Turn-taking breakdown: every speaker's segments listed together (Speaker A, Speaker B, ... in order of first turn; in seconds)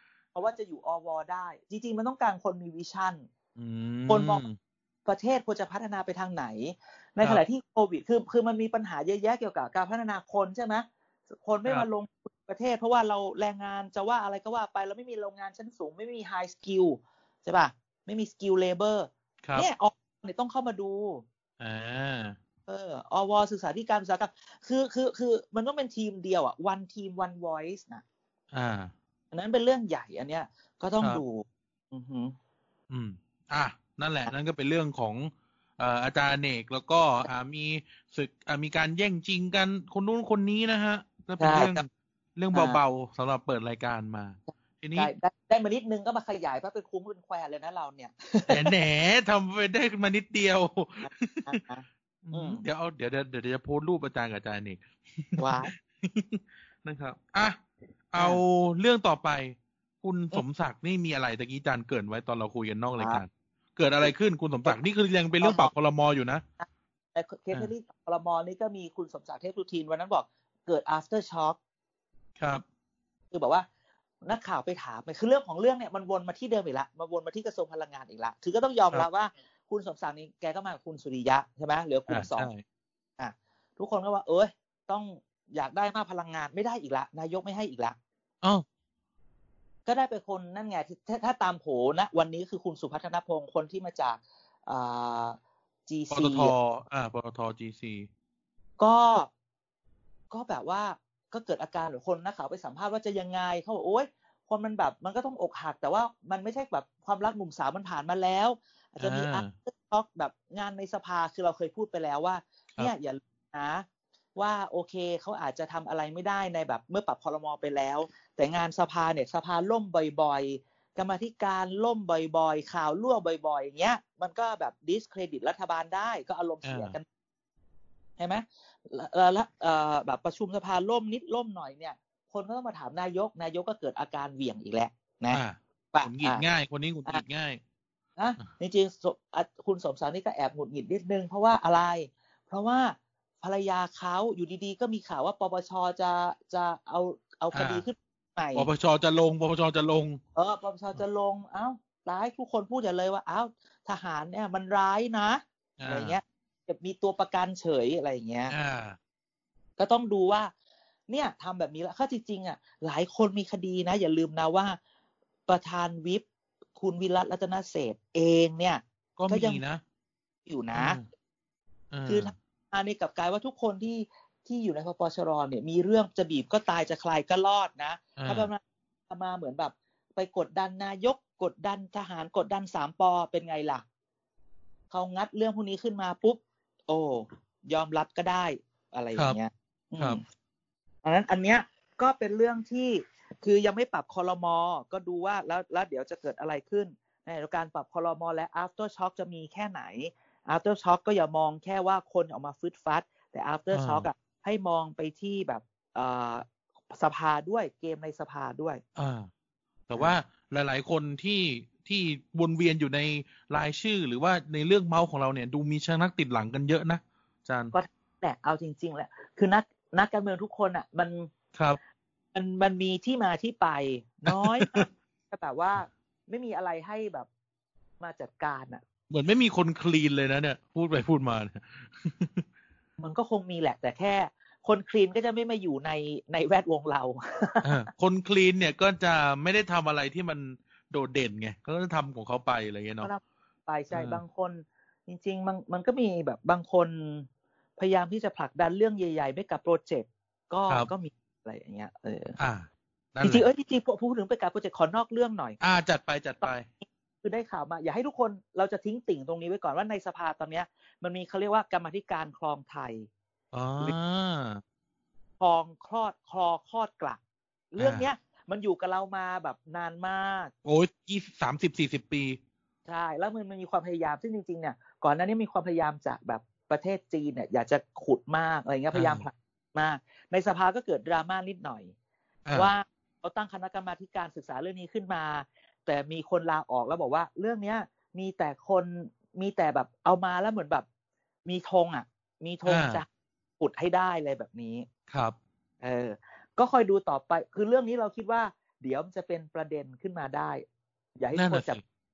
Speaker A: 0.3-3.2, 4.1-4.4, 5.1-21.2, 22.7-28.0, 29.3-32.4, 41.4-41.9, 42.5-42.8, 44.5-48.7, 51.1-52.6, 55.4-55.7, 58.2-58.4, 63.0-63.2, 65.4-65.7, 66.6-71.6, 73.3-73.7, 74.2-82.5, 83.2-88.0, 89.9-96.5, 98.8-99.3, 100.3-127.1, 128.2-135.4, 135.9-136.4, 138.2-148.7, 150.3-158.5, 159.8-160.5, 161.1-164.8, 165.5-166.2, 166.8-169.6, 170.5-171.0, 172.1-183.8, 184.9-190.2, 191.0-208.8, 217.7-221.3, 222.3-227.3, 228.0-228.8, 233.0-237.7, 243.0-252.4, 253.2-255.6, 256.8-263.1, 265.4-267.2, 267.7-270.5, 272.9-281.9, 282.5-290.9, 291.5-293.1, 293.6-294.9, 295.8-300.6, 301.2-301.8
Speaker B: 3.6-4.6, 21.6-22.4, 28.5-28.9, 32.9-45.1, 48.5-51.6, 52.2-57.6, 58.1-66.4, 72.4-72.6, 82.1-82.6, 96.1-98.1, 109.0-109.5, 126.6-127.0, 135.3-137.6, 147.5-147.8, 148.6-150.2, 155.8-156.2, 158.5-159.0, 169.2-169.8, 170.8-171.1, 171.9-172.3, 178.2-178.5, 203.7-204.1, 209.0-209.3, 209.9-217.7, 221.5-221.8, 224.3-224.9, 229.1-232.4, 237.6-243.1, 243.9-244.2, 252.4-253.5, 255.6-256.7, 263.5-264.6, 267.8-268.1, 270.6-272.4, 278.9-279.2, 282.5-282.7, 292.7-293.0, 295.1-295.4, 301.4-301.8